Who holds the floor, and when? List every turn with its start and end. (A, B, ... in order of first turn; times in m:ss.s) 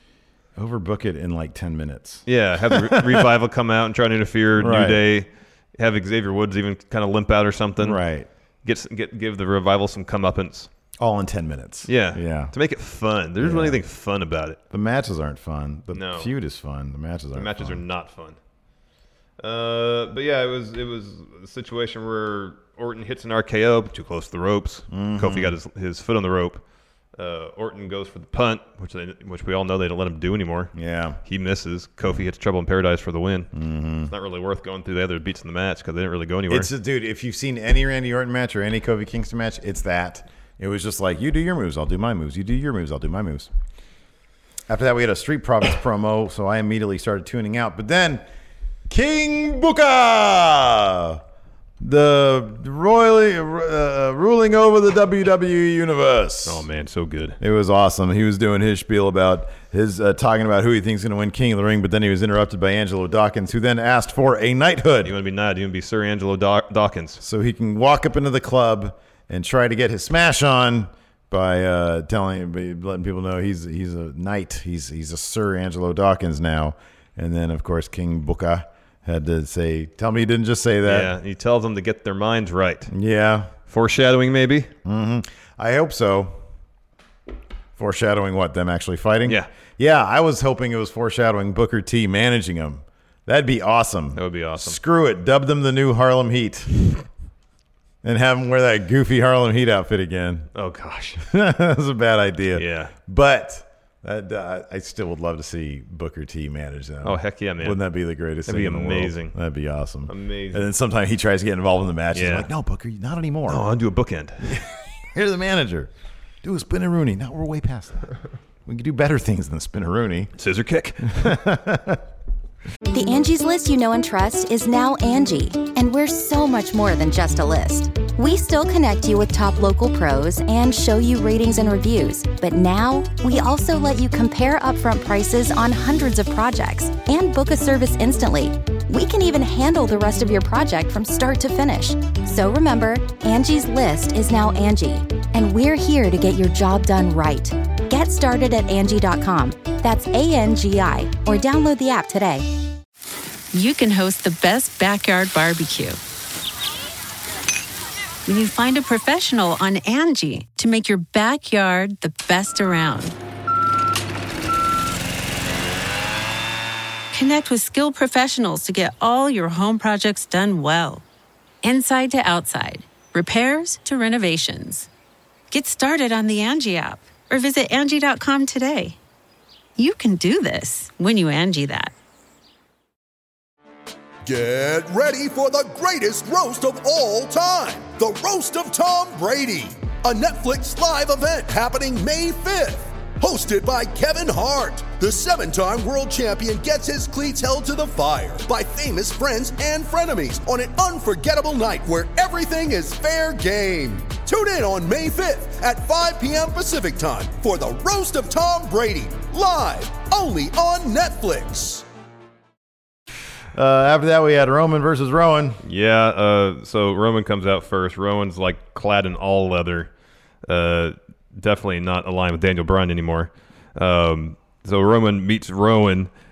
0:00.6-0:03.3 A
0:02.2-0:08.0 B
0:04.6-0:05.0 A
0:07.8-0:08.3 A
0:08.6-0:10.7 B
0:11.0-0:12.5 A
0:11.8-0:14.6 B
0:13.4-0:13.8 A
0:14.7-0:17.8 A
0:15.9-0:16.3 B
0:17.3-0:18.4 B
0:19.4-0:26.6 B
0:24.9-0:25.6 A
0:27.2-0:30.7 B
0:30.7-0:31.2 A
0:31.2-0:33.5 B
0:33.5-0:34.1 A
0:34.1-0:36.7 B
0:36.5-0:43.5 A
0:44.7-0:48.2 A
0:48.9-0:51.2 A
0:51.8-0:56.6 A
0:56.4-0:57.4 B
0:57.4-1:05.1 A
1:05.0-1:07.2 B
1:07.2-1:21.1 A
1:20.8-1:22.9 B
1:22.9-1:23.5 A
1:23.7-1:24.7 B
1:24.8-1:26.4 A
1:27.8-1:36.8 A
1:34.1-1:34.8 B
1:38.0-1:40.5 A
1:40.5-1:41.2 B
1:41.2-1:53.6 A
1:42.5-1:42.9 B
1:47.0-1:47.8 B
1:48.4-1:49.3 B
1:50.1-1:50.6 B
1:52.1-1:52.5 B
1:53.5-1:54.6 B
1:54.4-1:55.9 A
1:56.4-1:58.1 A
1:58.6-2:00.3 A
2:00.4-2:01.4 B
2:01.1-2:02.0 A
2:02.9-2:32.5 C
2:33.5-2:36.0 D
2:38.2-2:43.2 D
2:47.1-2:51.0 D
2:51.6-2:54.9 D
2:55.5-2:59.0 D
2:59.8-3:01.9 D
3:04.2-3:31.8 E
3:33.5-3:35.6 A
3:35.6-3:39.9 B
3:40.4-3:46.1 B